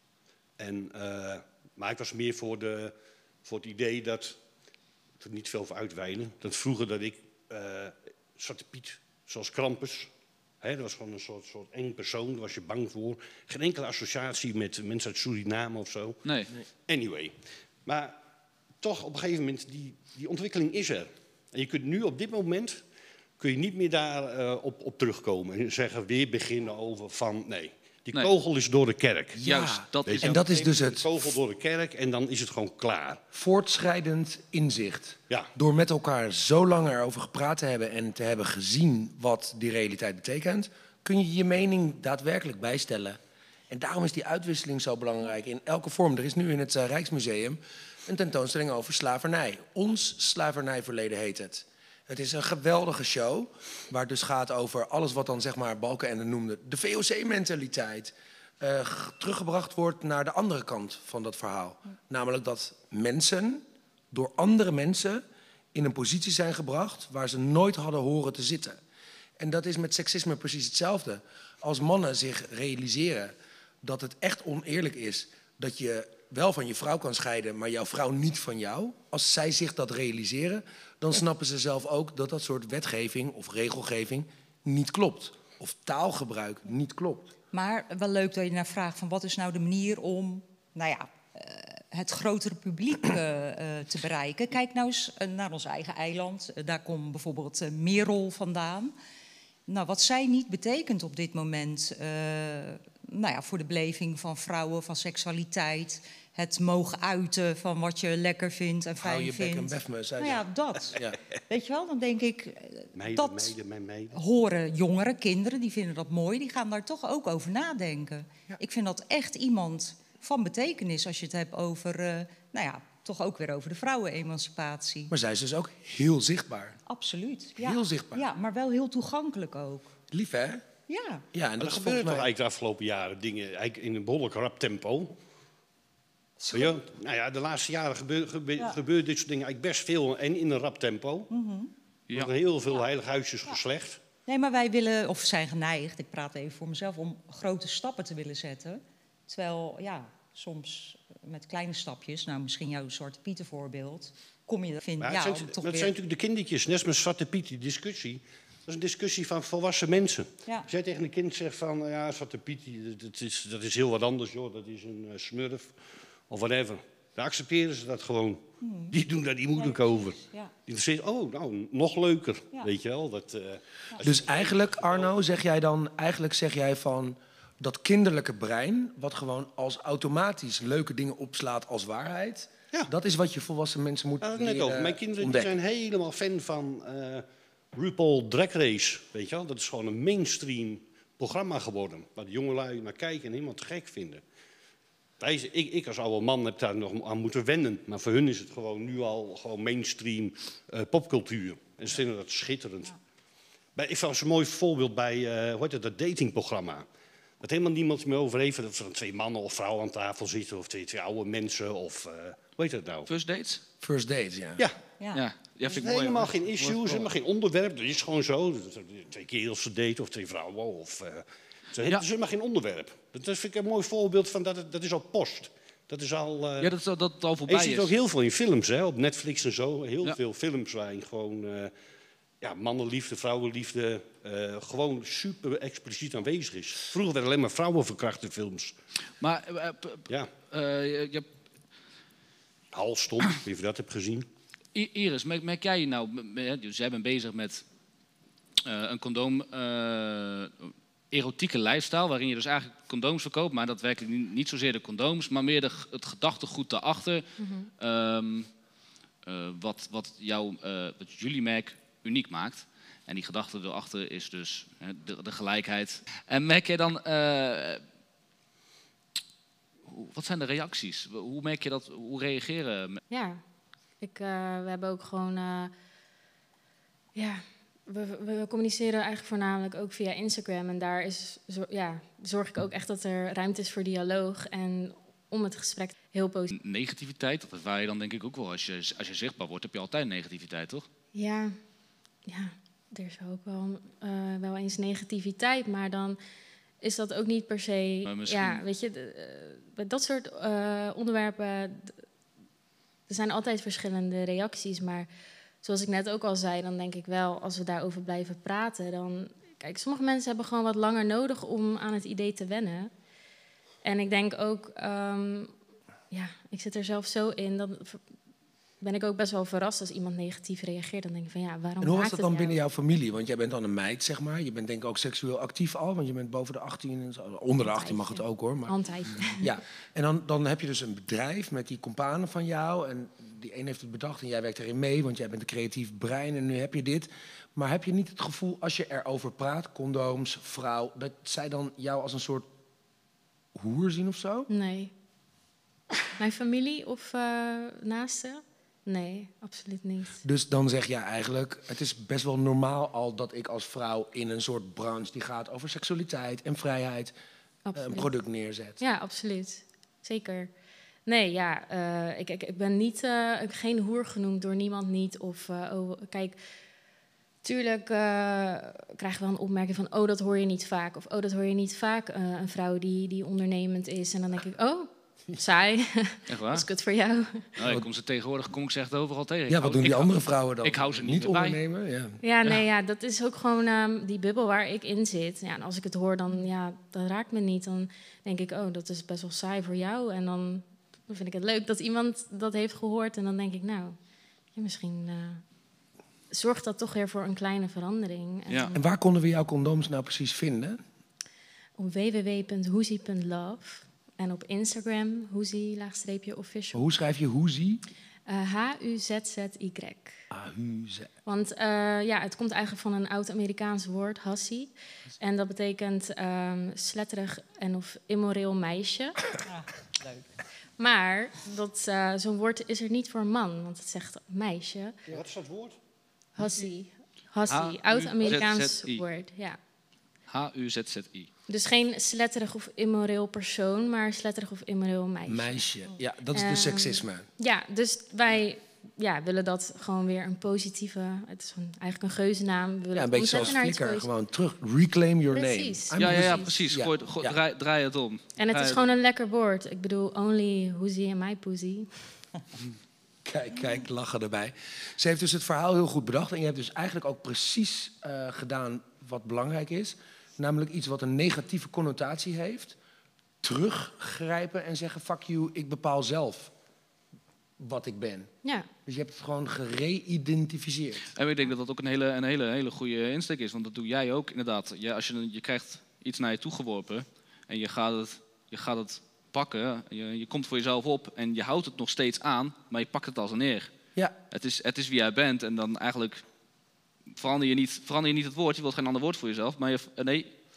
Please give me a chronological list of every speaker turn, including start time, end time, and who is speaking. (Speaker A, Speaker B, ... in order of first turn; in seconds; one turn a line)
Speaker A: 0.6-2.9
Speaker A: 3.4-4.4
Speaker A: 5.2-10.1
Speaker A: 10.6-16.2
Speaker B: 16.2-16.5
Speaker A: 16.9-18.2
Speaker A: 18.8-22.8
Speaker A: 23.4-29.4
Speaker C: 29.3-31.4
Speaker B: 29.4-30.4
Speaker A: 30.1-33.2
Speaker C: 33.3-43.2
Speaker C: 43.7-68.8
Speaker C: 69.4-87.3
Speaker D: 87.5-98.9
Speaker D: 99.7-113.5
Speaker C: 109.0-111.2
Speaker A: 112.9-114.2
Speaker D: 114.1-125.1
Speaker C: 125.1-126.8
Speaker D: 126.9-129.9
Speaker C: 127.6-128.3
Speaker C: 130.1-130.7
Speaker D: 130.9-131.2
Speaker C: 131.3-132.3
Speaker A: 131.6-135.2
Speaker A: 136.5-141.3
Speaker D: 141.3-141.7
Speaker A: 142.1-144.0
Speaker D: 144.2-155.9
Speaker A: 155.0-165.8
Speaker A: 166.3-175.1
Speaker D: 168.6-169.0
Speaker D: 169.6-170.5
Speaker C: 174.0-185.5
Speaker A: 184.2-194.2
Speaker A: 195.2-202.9
Speaker A: 203.8-206.8
Speaker A: 207.4-213.1
Speaker B: 213.1-213.6
Speaker C: 213.8-214.7
Speaker B: 215.1-217.1
Speaker A: 215.7-226.7
Speaker B: 226.6-227.9
Speaker A: 227.5-231.7
Speaker A: 232.4-238.7
Speaker B: 239.2-241.2
Speaker A: 242.7-244.3
Speaker B: 244.7-247.6
Speaker B: 248.6-257.2
Speaker E: 257.4-257.7
Speaker B: 257.8-258.5
Speaker B: 259.2-267.8
Speaker B: 269.9-273.0
Speaker E: 273.1-273.4
Speaker E: 274.0-275.7
Speaker E: 277.1-286.5
Speaker B: 286.5-290.9
Speaker E: 291.1-291.5
Speaker E: 292.2-296.2
Speaker E: 296.8-301.9
Speaker B: 298.0-298.6
Speaker E: 303.1-305.1
Speaker E: 305.6-312.9
Speaker E: 313.8-315.5
Speaker E: 316.1-318.0
Speaker E: 318.8-322.5
Speaker C: 321.8-328.8
Speaker E: 327.6-329.5
Speaker C: 329.4-342.5
Speaker C: 343.5-344.5
Speaker E: 344.5-344.9
Speaker E: 346.1-350.2
Speaker C: 350.2-357.1
Speaker E: 357.6-358.1
Speaker C: 357.7-358.8
Speaker E: 358.8-360.5
Speaker E: 361.1-366.4
Speaker E: 367.4-377.5
Speaker B: 376.3-376.6
Speaker B: 377.6-381.6
Speaker C: 379.5-382.2
Speaker E: 382.2-394.0
Speaker E: 394.5-395.4
Speaker E: 396.3-398.8
Speaker C: 398.7-400.8
Speaker E: 401.8-406.8
Speaker C: 406.7-407.8
Speaker E: 408.3-410.2
Speaker C: 410.3-411.1
Speaker E: 411.2-419.4
Speaker D: 419.4-420.3
Speaker E: 420.8-425.0
Speaker A: 425.1-425.8
Speaker E: 426.4-429.6
Speaker B: 427.5-429.0
Speaker B: 430.3-431.3
Speaker E: 431.5-435.6
Speaker C: 435.3-437.3
Speaker E: 436.3-444.1
Speaker C: 442.9-447.4
Speaker E: 445.3-446.5
Speaker B: 446.0-448.8
Speaker E: 448.4-451.9
Speaker C: 453.2-462.8
Speaker C: 463.4-466.5
Speaker C: 467.6-468.3
Speaker C: 468.8-471.1
Speaker B: 471.1-483.7
Speaker B: 484.3-486.2
Speaker B: 487.1-490.3